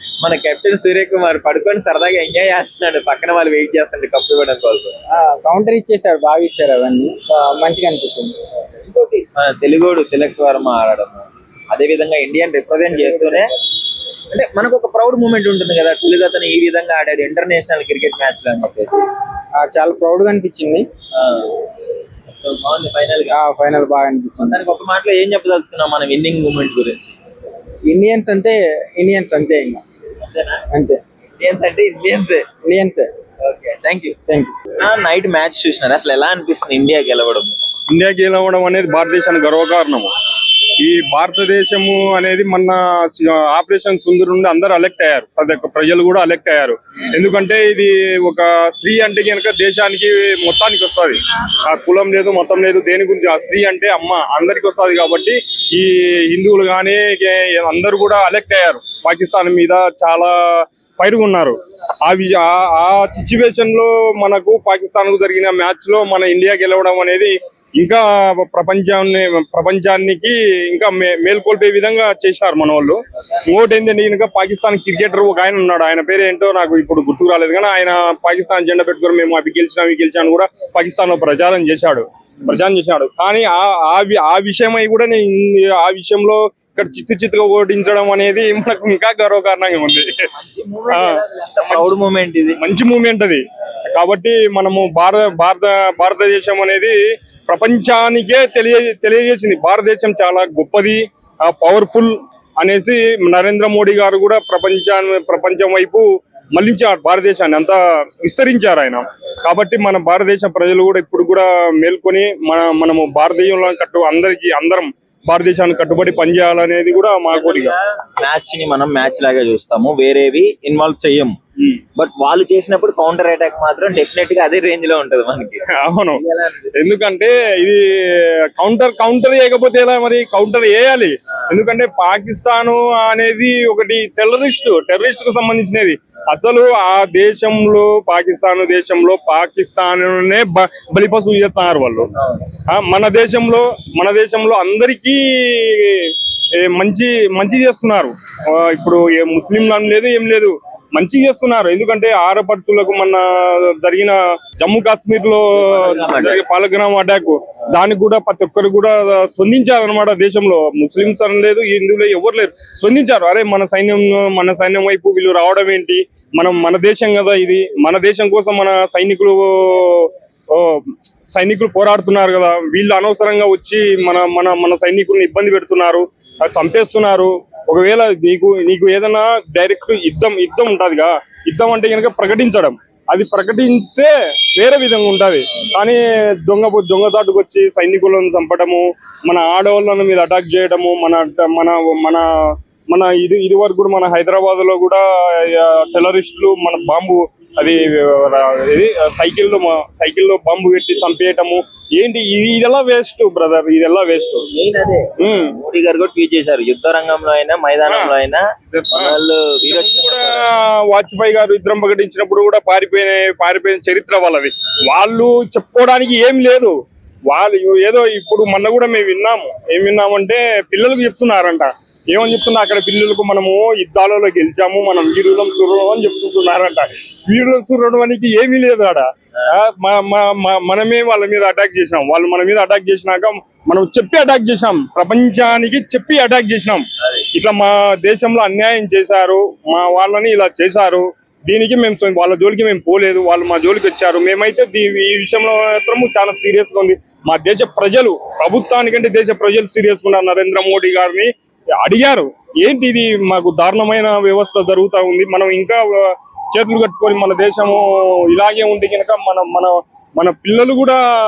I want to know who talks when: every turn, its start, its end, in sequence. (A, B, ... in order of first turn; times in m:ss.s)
0:00.2-0:04.9 A
0:05.1-0:08.4 B
0:08.8-0:13.5 A
0:12.9-0:13.5 B
0:14.3-0:19.0 A
0:19.6-0:20.9 B
0:21.1-0:21.7 A
0:22.4-0:23.4 A
0:23.3-0:24.6 B
0:24.4-0:27.2 A
0:27.9-0:29.8 B
0:30.3-0:30.6 A
0:30.7-0:31.0 B
0:31.4-0:32.4 A
0:32.6-0:33.1 B
0:33.4-0:34.2 A
0:34.3-0:34.5 B
0:34.8-0:37.6 A
0:37.9-0:40.1 C
0:40.8-1:30.3 C
1:30.3-1:32.6 A
1:30.9-1:31.9 C
1:32.6-1:33.4 C
1:33.9-1:36.9 C
1:37.5-1:46.0 C
1:46.6-1:57.7 C
1:57.3-2:01.4 A
2:02.0-2:05.6 A
2:05.8-2:06.2 C
2:06.1-2:06.7 A
2:06.8-2:07.8 C
2:08.6-2:22.1 C
2:22.2-2:22.4 A
2:22.7-2:33.2 C
2:33.7-2:50.7 C
2:35.6-2:36.4 A
2:51.3-3:12.2 C
3:12.9-3:24.4 C
3:24.5-3:30.4 A
3:25.2-3:25.6 C
3:27.9-3:28.1 C
3:28.7-3:36.8 C
3:37.3-4:11.3 C
4:11.8-4:21.0 C